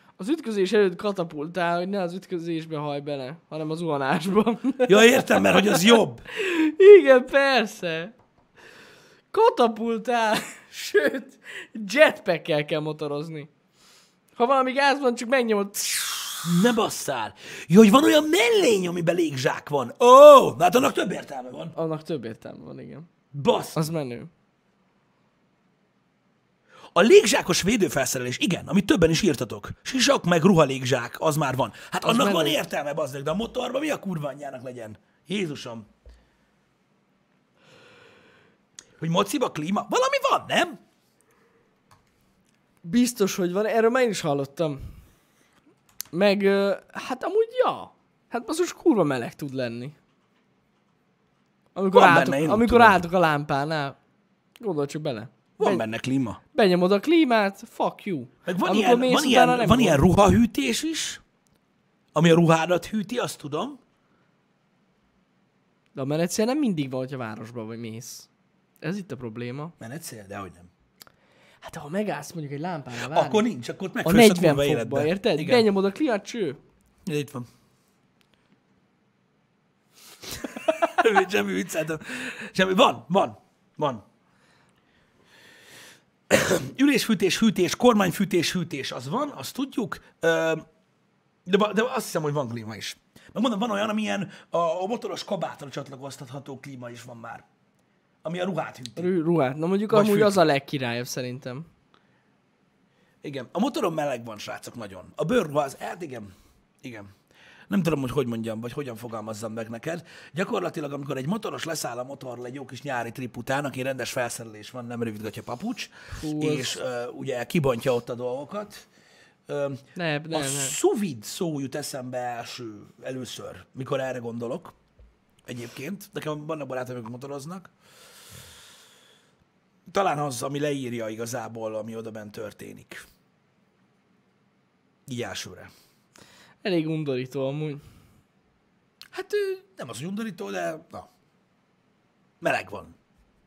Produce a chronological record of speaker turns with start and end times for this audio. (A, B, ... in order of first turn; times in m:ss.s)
0:00.2-0:08.1 A
0:04.8-0:06.2 B
0:09.3-0:13.5 A
0:14.4-0:16.5 A
0:16.4-0:21.8 B
0:21.8-0:23.1 A
0:23.3-0:23.9 B
0:23.8-0:24.3 A
0:27.0-0:35.9 B
0:32.0-0:32.6 A
0:39.0-0:40.8 B
0:42.8-0:44.9 A
0:46.1-0:50.0 A
0:51.8-0:54.0 A
0:51.9-0:53.0 B
0:54.6-0:55.8 A
0:55.6-0:56.4 B
0:56.5-1:00.0 A
0:58.5-1:01.2 B
1:02.2-1:03.8 B
1:06.0-1:08.3 A
1:08.8-1:09.7 A
1:09.8-1:10.7 B
1:11.6-1:13.4 A
1:13.0-1:15.7 B
1:14.0-1:16.6 A
1:17.1-1:17.5 B
1:20.5-1:24.0 B
1:26.3-1:30.6 B
1:31.5-1:37.4 B
1:38.2-1:39.1 B
1:39.0-1:41.7 A
1:39.9-1:40.4 B
1:43.2-1:46.3 B
1:46.8-1:47.1 B
1:47.7-1:58.9 B
1:56.1-1:56.8 A
1:59.5-2:04.7 B
2:00.0-2:00.8 A
2:05.5-2:07.7 B
2:09.9-2:13.0 B
2:15.1-2:15.7 B
2:16.6-2:17.8 A
2:19.1-2:21.1 B
2:22.4-2:23.0 B